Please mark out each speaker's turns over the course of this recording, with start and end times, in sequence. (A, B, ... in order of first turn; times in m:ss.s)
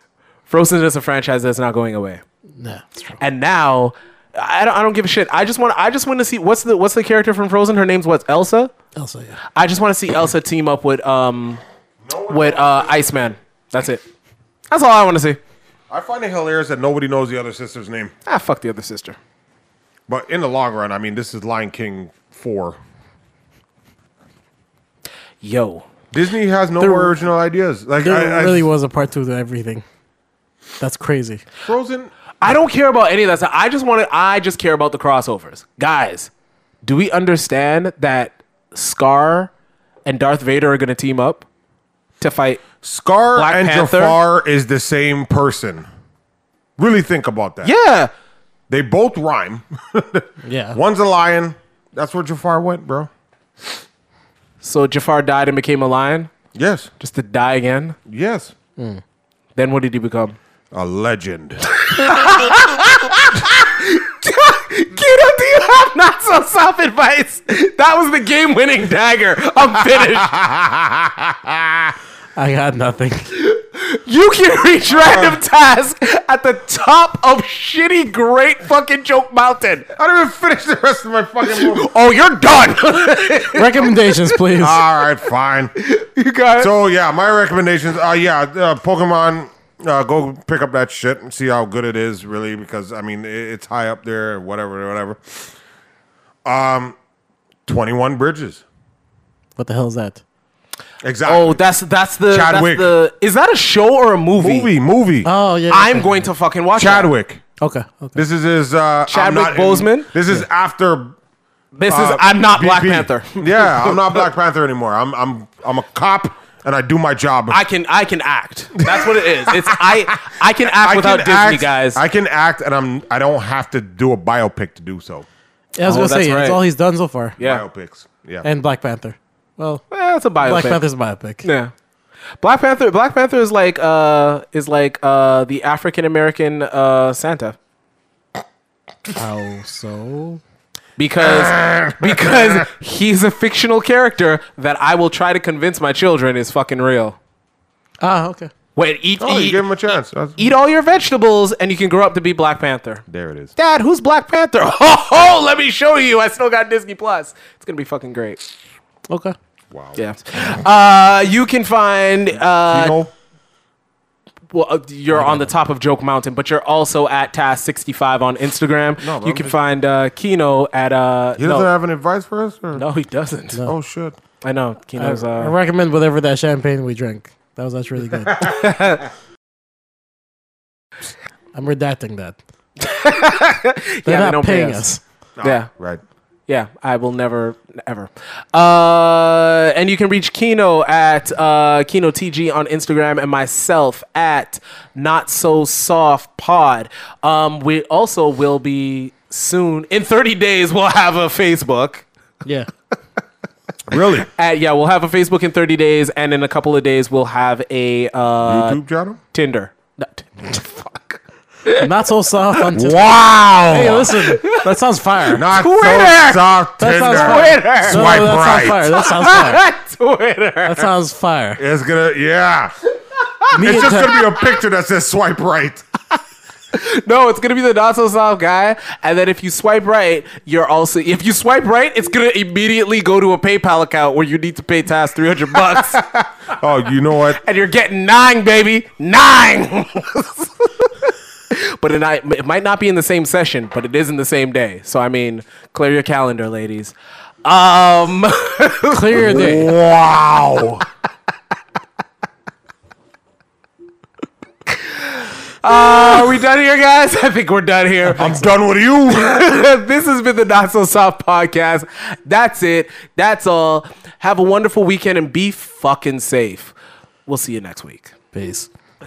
0:00.5-0:02.2 A
0:02.6-0:03.2 B
0:03.2-0:08.7 A
0:09.0-0:09.4 B
0:09.6-0:11.6 A
0:12.0-0:13.3 C
0:12.3-0:14.0 A
0:14.7-0:15.4 A
0:15.9-0:18.1 C
0:18.3-0:19.2 A
0:20.1-0:22.8 C
0:25.4-0:25.9 A
0:26.1-0:28.7 C
0:28.0-0:29.8 B
0:30.8-0:31.4 B
0:31.6-0:32.1 C
0:32.4-0:36.3 A
0:36.8-0:39.5 A
0:40.1-0:41.5 A
0:42.2-0:42.7 A
0:42.8-0:45.9 C
0:43.3-0:44.2 A
0:46.8-0:47.7 C
0:47.6-0:48.1 A
0:48.7-0:53.1 C
0:50.4-0:50.8 B
0:54.6-0:56.3 A
0:56.6-0:56.9 C
0:57.0-0:58.0 A
0:58.1-0:58.5 C
0:58.8-0:59.0 B
0:59.6-1:00.4 A
1:00.7-1:01.8 C
1:01.8-1:10.4 A
1:10.2-1:11.9 C
1:12.4-1:13.3 B
1:13.3-1:19.9 A
1:15.0-1:15.4 C
1:20.0-1:21.9 C
1:21.4-1:24.4 A
1:23.5-1:24.8 B
1:24.6-1:25.7 C
1:25.8-1:26.7 A
1:26.6-1:35.4 C
1:36.4-1:37.0 C
1:37.7-1:38.6 C
1:39.6-1:40.2 B
1:41.0-1:41.6 C
1:41.2-1:44.7 A
1:42.3-1:43.0 C
1:44.4-1:45.3 C
1:45.2-1:46.3 B
1:45.7-1:47.1 A
1:46.8-1:47.4 C
1:47.6-1:48.2 B
1:48.2-1:51.2 C
1:49.1-1:50.1 A
1:51.8-1:54.2 A
1:51.9-1:57.6 C
1:57.5-2:02.0 A
1:58.8-2:05.3 C
2:05.8-2:07.4 B
2:05.8-2:06.6 A
2:07.4-2:08.5 C
2:08.4-2:09.8 B
2:09.9-2:10.8 A
2:10.4-2:11.4 B
2:11.4-2:11.7 A
2:12.4-2:17.6 A
2:19.2-2:20.4 B
2:21.0-2:27.2 A
2:21.2-2:22.6 C
2:28.0-2:28.5 B
2:28.8-2:33.0 A
2:29.2-2:30.5 C
2:33.1-2:33.5 C
2:33.6-2:38.4 A
2:39.1-2:39.4 B
2:39.7-2:40.0 C
2:40.0-2:43.0 A
2:42.6-2:43.1 C
2:44.5-2:51.7 A
2:49.0-2:49.6 C
2:51.4-2:52.8 C
2:52.8-2:53.6 A
2:53.6-2:54.2 C
2:54.4-2:55.6 A
2:55.0-2:58.5 B
2:58.4-2:59.0 A
3:01.5-3:02.4 B
3:02.8-3:04.8 A
3:04.1-3:05.0 B
3:05.4-3:06.0 C
3:05.4-3:05.7 A
3:06.5-3:22.0 A
3:22.4-3:22.7 B
3:23.9-3:24.3 C
3:24.3-3:28.8 A
3:28.4-3:29.2 C
3:29.3-3:31.9 A
3:31.8-3:35.4 B
3:32.7-3:34.4 C
3:34.2-3:34.7 A
3:35.3-3:38.9 C
3:35.4-3:36.5 A
3:36.8-3:39.6 B
3:37.0-3:38.3 A
3:39.0-3:40.9 A
3:40.6-3:41.6 B
3:41.6-3:42.7 C
3:43.5-3:44.2 B
3:43.6-3:45.9 C
3:46.7-3:56.0 A
3:56.0-3:57.4 C
3:57.4-4:09.7 A
4:08.9-4:09.7 B
4:09.1-4:10.8 C
4:15.6-4:18.4 A
4:18.2-4:19.3 C
4:19.1-4:26.7 A
4:27.3-4:28.1 A
4:28.3-4:28.7 B